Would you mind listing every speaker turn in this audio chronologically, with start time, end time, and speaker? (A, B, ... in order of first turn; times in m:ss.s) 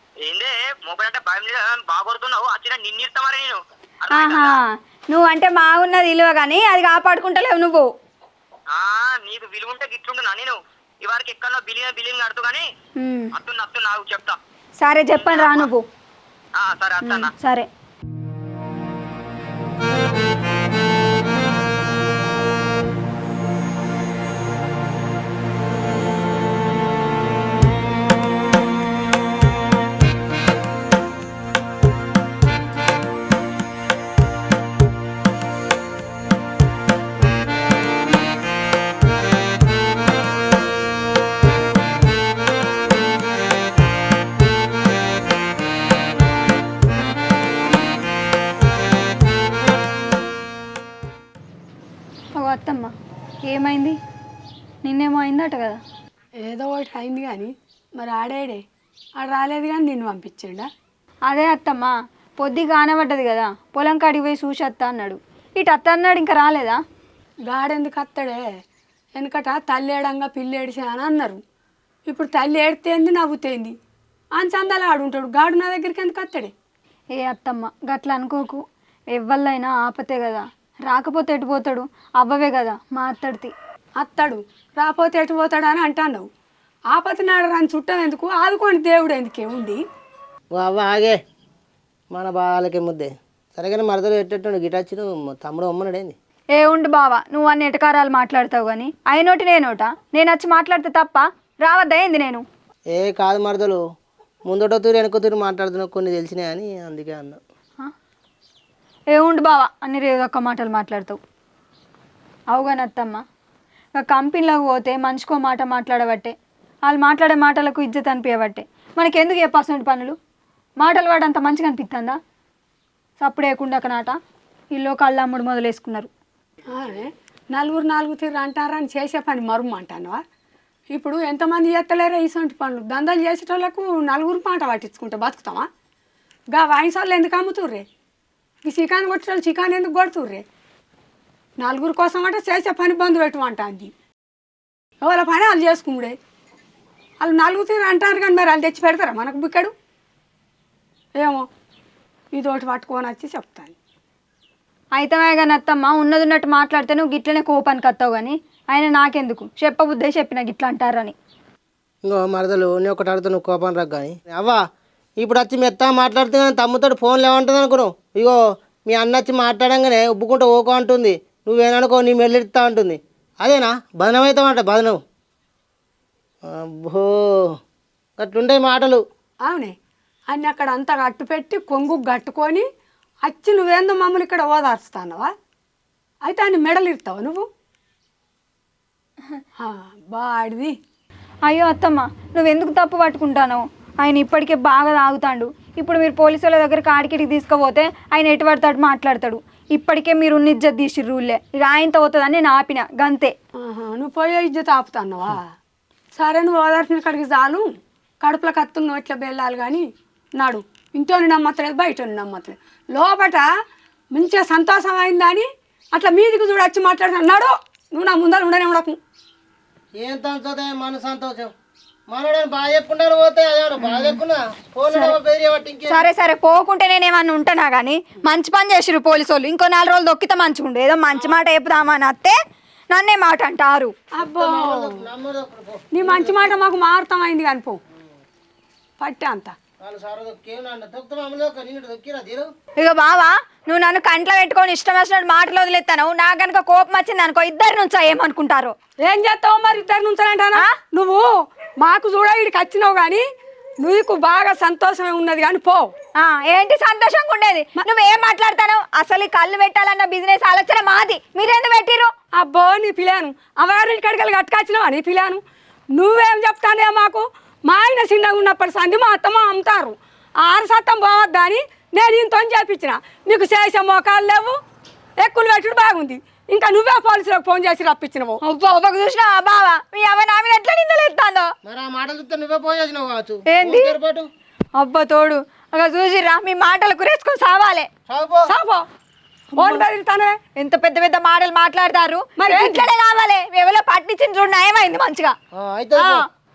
0:00.2-0:04.6 A
0:04.1-0:07.9 B
0:08.7-0:12.6 A
0:13.0-0:13.3 B
0:13.3-0:14.4 A
0:14.8-0:15.8 B
0:15.2-0:15.7 A
0:16.6-0:17.3 A
0:17.0-0:17.7 B
0:52.3-0:52.9 B
0:53.4-0:54.0 B
0:54.8-0:55.8 B
0:56.4-0:58.6 C
0:59.2-1:00.7 C
1:01.3-1:06.8 B
1:07.5-1:08.5 C
1:09.2-1:11.4 C
1:12.1-1:13.7 C
1:14.4-1:16.5 C
1:17.2-1:18.6 B
1:19.1-1:23.5 B
1:24.0-1:26.3 C
1:26.9-1:29.8 C
1:30.5-1:31.2 D
1:32.1-1:36.1 D
1:36.5-1:42.4 B
1:42.9-1:43.8 D
1:44.4-1:47.4 D
1:49.1-1:51.2 B
1:52.5-1:53.2 B
1:54.0-1:56.3 B
1:56.9-2:00.2 B
2:00.8-2:02.2 B
2:03.2-2:04.2 B
2:04.7-2:06.1 B
2:06.7-2:10.2 C
2:10.9-2:15.7 C
2:16.5-2:17.8 C
2:18.6-2:20.4 C
2:21.6-2:23.9 C
2:25.0-2:26.2 C
2:27.2-2:29.7 C
2:31.2-2:31.4 C
2:32.3-2:33.7 C
2:35.0-2:41.1 B
2:42.0-2:44.6 D
2:45.2-2:55.0 D
2:56.5-2:57.1 D
2:58.2-2:59.0 D
2:59.4-2:59.7 C
3:00.3-3:02.6 C
3:03.2-3:05.3 C
3:06.2-3:07.4 C
3:09.6-3:10.7 C
3:11.5-3:23.3 B
3:23.6-3:25.5 C
3:26.1-3:27.7 C
3:28.2-3:29.8 C
3:30.4-3:33.5 C
3:34.1-3:39.0 C
3:40.0-3:41.5 D
3:42.1-3:46.0 D
3:44.9-3:45.2 B
3:45.9-3:52.4 B
3:51.1-3:51.4 D
3:52.9-3:53.9 B
3:54.2-3:55.0 C
3:54.2-3:56.5 D
3:55.9-3:57.8 C
3:59.0-3:59.5 C
3:59.8-4:02.5 D
4:02.8-4:08.7 B
4:09.0-4:11.3 C
4:11.8-4:13.2 C
4:13.8-4:15.9 C
4:16.2-4:22.1 B
4:22.4-4:25.4 C
4:26.0-4:34.6 C
4:35.2-4:38.4 C
4:38.4-4:41.5 B
4:41.6-4:44.3 D
4:43.5-4:43.9 B
4:44.8-4:47.9 B
4:48.1-4:48.5 D
4:48.5-4:48.8 C
4:49.6-4:50.4 C
4:50.6-4:55.3 B
4:52.4-4:52.9 C
4:55.5-4:56.2 D
4:56.0-4:56.2 B